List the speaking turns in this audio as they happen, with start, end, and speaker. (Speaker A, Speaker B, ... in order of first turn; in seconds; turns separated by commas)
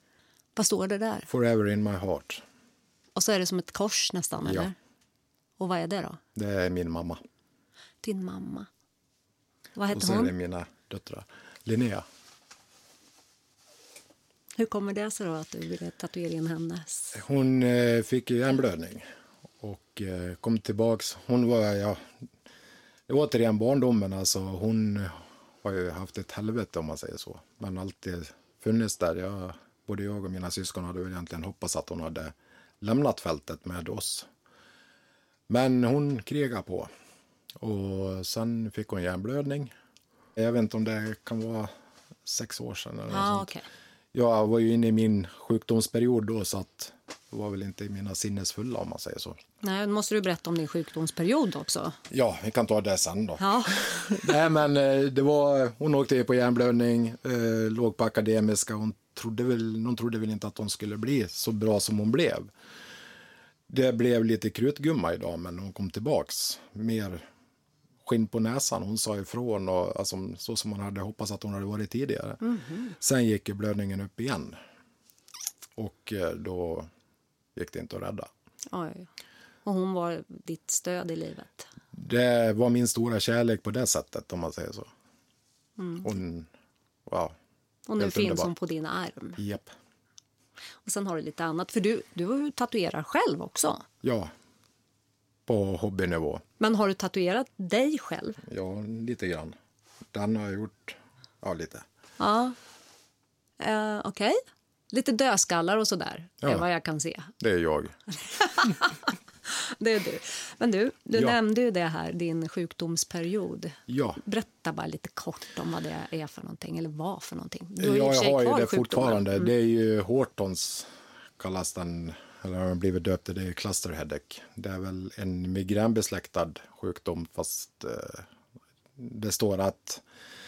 Speaker A: 0.6-1.3, Speaker B: 1.3-2.4, Speaker A: 3.1-4.7, Speaker B: 4.4-4.7, Speaker A: 5.6-6.2, Speaker B: 6.3-7.2, Speaker A: 8.0-8.7, Speaker A: 9.8-10.3, Speaker B: 9.9-12.1, Speaker A: 14.6-17.2, Speaker B: 17.1-19.0, Speaker B: 19.6-22.0, Speaker B: 23.1-34.3, Speaker B: 35.5-36.9, Speaker B: 37.6-39.7, Speaker B: 40.4-41.7, Speaker B: 42.2-43.5, Speaker A: 43.1-43.6, Speaker B: 44.1-49.4, Speaker A: 49.6-52.0, Speaker B: 52.1-62.5, Speaker A: 53.4-54.3, Speaker B: 63.7-67.2, Speaker B: 68.0-72.4, Speaker A: 72.4-72.9, Speaker B: 73.0-74.5, Speaker B: 75.8-76.9, Speaker B: 77.5-78.3, Speaker A: 78.7-79.1, Speaker A: 79.6-81.7, Speaker B: 81.9-84.9, Speaker A: 85.8-86.0, Speaker B: 86.0-86.5, Speaker B: 87.1-87.3, Speaker A: 87.9-89.4, Speaker B: 88.0-88.5, Speaker B: 89.3-89.7, Speaker A: 90.8-93.8, Speaker B: 94.0-94.3, Speaker B: 95.5-96.4, Speaker A: 96.6-98.4, Speaker B: 98.4-99.5, Speaker B: 100.1-101.8, Speaker A: 102.2-102.5, Speaker A: 103.6-107.3, Speaker B: 107.4-108.0, Speaker A: 108.2-119.5, Speaker B: 113.9-114.2, Speaker B: 117.8-128.3, Speaker B: 128.9-130.0